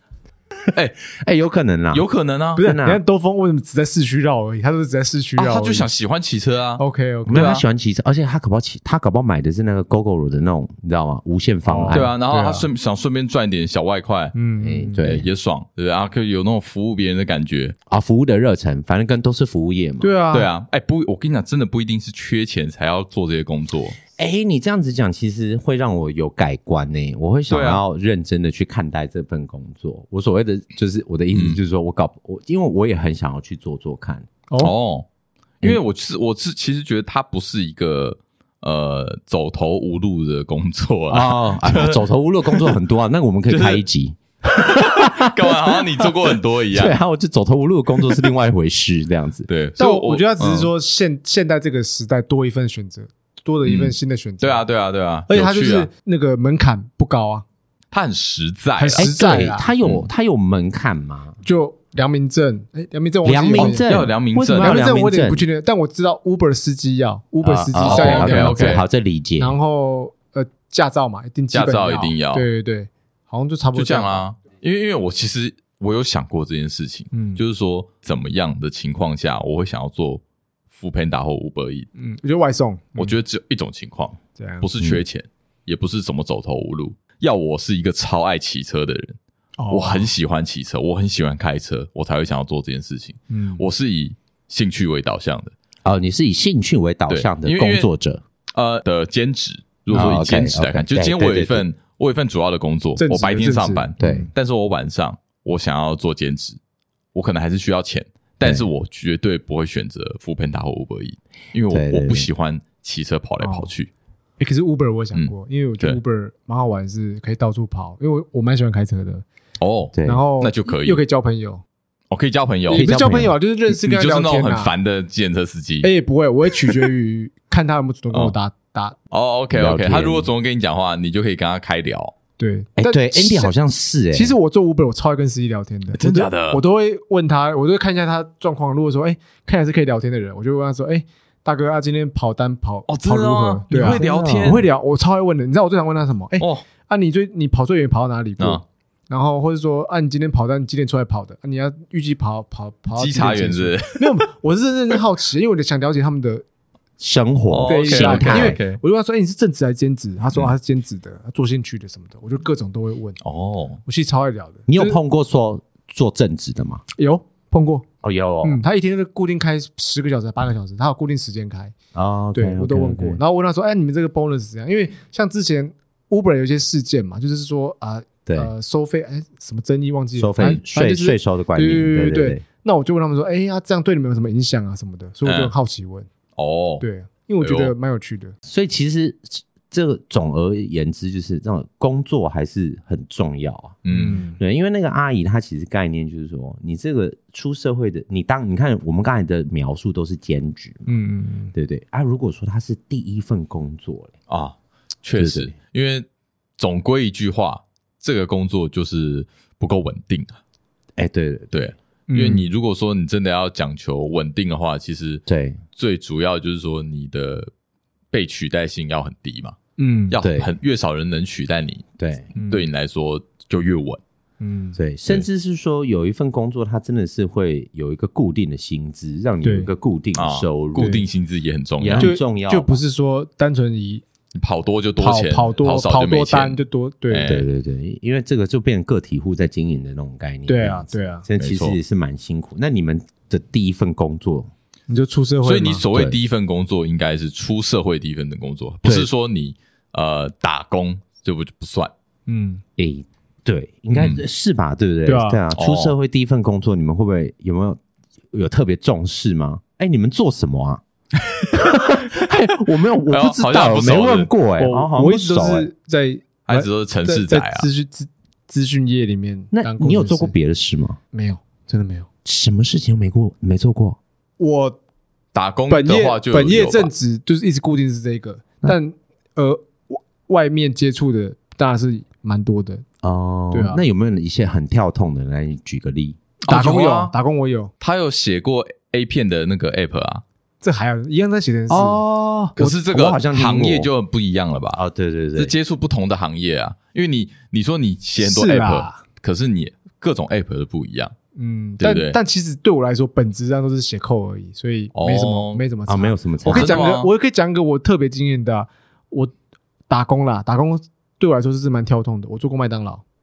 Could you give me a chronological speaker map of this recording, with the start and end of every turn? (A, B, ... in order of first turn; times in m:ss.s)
0:01.1-0:02.0 A
0:01.9-0:02.6 B
0:02.6-0:05.9 C
0:02.6-0:03.0 A
0:05.4-0:07.6 B
0:06.8-0:07.6 C
0:07.2-0:12.1 A
0:11.6-0:12.7 C
0:11.9-0:14.4 B
0:14.3-0:15.0 C
0:14.6-0:15.3 A
0:15.0-0:17.7 B
0:17.9-0:20.1 A
0:20.0-0:20.5 C
0:20.3-0:24.0 B
0:24.2-0:34.3 A
0:27.5-0:27.8 B
0:31.3-0:31.6 B
0:34.6-0:35.0 B
0:35.6-0:42.8 B
0:41.1-0:49.5 A
0:43.5-0:43.8 B
0:44.6-0:47.0 B
0:49.5-0:50.7 B
0:49.8-0:54.6 C
0:53.6-0:55.9 B
0:55.3-0:57.4 C
0:57.9-0:59.1 B
0:58.8-0:59.7 C
0:59.0-1:01.4 A
1:01.4-1:03.9 C
1:03.2-1:05.4 A
1:03.6-1:04.8 B
1:04.5-1:08.8 C
1:07.4-1:09.6 A
1:07.8-1:08.8 B
1:09.4-1:14.2 C
1:11.5-1:12.4 B
1:13.7-1:21.9 B
1:17.1-1:17.4 C
1:22.0-1:23.2 C
1:23.0-1:29.2 B
1:24.4-1:24.7 C
1:29.6-1:30.1 C
1:29.7-1:35.5 B
1:33.3-1:33.6 C
1:35.8-1:38.2 A
1:37.1-1:37.9 B
1:38.5-1:46.6 B
1:39.9-1:40.2 C
1:39.9-1:41.6 A
1:43.0-1:44.3 C
1:44.0-1:44.3 A
1:47.1-1:53.9 B
1:48.4-1:48.7 A
1:51.7-1:52.3 A
1:53.4-1:53.7 C
1:54.4-1:59.2 C
1:55.1-1:56.0 B
1:59.6-2:01.0 B
1:59.9-2:00.2 A
2:00.0-2:01.6 C
2:02.1-2:02.9 B
2:02.7-2:04.7 C
2:02.7-2:03.3 A
2:03.7-2:05.9 B
2:05.8-2:09.0 C
2:09.1-2:12.1 B
2:09.5-2:10.3 A
2:12.4-2:13.5 C
2:12.8-2:14.3 A
2:14.1-2:36.4 C
2:15.9-2:16.6 B
2:22.9-2:24.6 B
2:23.7-2:24.6 A
2:26.4-2:26.6 B
2:33.0-2:34.2 B
2:37.0-2:38.6 A
2:37.5-2:38.8 B
2:37.6-2:43.2 C
2:43.2-2:43.8 B
2:43.8-2:45.0 C
2:44.7-2:46.8 A
2:47.0-2:47.8 C
2:48.0-2:48.6 A
2:48.4-2:51.7 C
2:51.9-2:53.2 A
2:52.3-3:06.1 C
3:00.2-3:02.4 A
3:05.2-3:05.5 B
3:06.4-3:06.8 B
3:06.8-3:08.3 C
3:07.4-3:07.7 B
3:08.4-3:13.8 A
3:13.8-3:14.2 B
3:13.9-3:14.4 C
3:14.4-3:20.9 A
3:20.8-3:21.5 C
3:21.5-3:24.1 A
3:24.3-3:26.0 B
3:25.2-3:25.5 A
3:26.6-3:30.4 B
3:31.0-3:31.6 A
3:31.5-3:35.2 B
3:32.1-3:32.5 C
3:35.3-3:35.6 A
3:35.7-3:37.5 B
3:38.1-3:39.6 B
3:39.8-3:40.2 C
3:40.1-3:44.0 B
3:40.2-3:40.5 A
3:42.0-3:42.3 A
3:42.4-3:42.7 C
3:44.4-3:44.8 C
3:44.8-3:51.0 A
3:49.4-3:49.7 C
3:50.1-3:52.1 B
3:51.8-3:52.8 A
3:52.0-3:54.0 C
3:54.3-3:57.5 B
3:55.0-3:57.3 C
3:57.2-4:04.5 A
4:00.5-4:01.2 C
4:01.4-4:01.8 B
4:04.9-4:05.8 C
4:05.4-4:11.9 B
4:12.3-4:12.6 C
4:12.8-4:17.8 A
4:13.9-4:14.2 B
4:15.0-4:15.4 C
4:15.5-4:15.9 B
4:18.3-4:20.8 A
4:21.5-4:25.7 A
4:23.1-4:24.3 B
4:24.6-4:30.3 C
4:26.4-4:27.7 B
4:29.5-4:31.0 A
4:31.1-4:32.1 C
4:32.2-4:34.0 A
4:34.4-4:34.8 C
4:35.3-4:36.9 B
4:35.7-4:42.8 C
4:43.0-4:46.2 A
4:43.5-4:43.8 C
4:46.5-4:47.1 B
4:46.5-4:47.7 C
4:47.8-4:50.2 B
4:50.6-4:52.0 C
4:51.7-4:53.9 A
4:52.6-4:54.8 B
4:54.7-4:55.5 A
4:55.4-5:01.1 B
4:58.2-4:59.0 C
5:01.3-5:09.3 C
5:01.8-5:02.2 B
5:04.9-5:05.6 B
5:05.9-5:06.8 A
5:06.5-5:07.1 B
5:09.9-5:13.0 C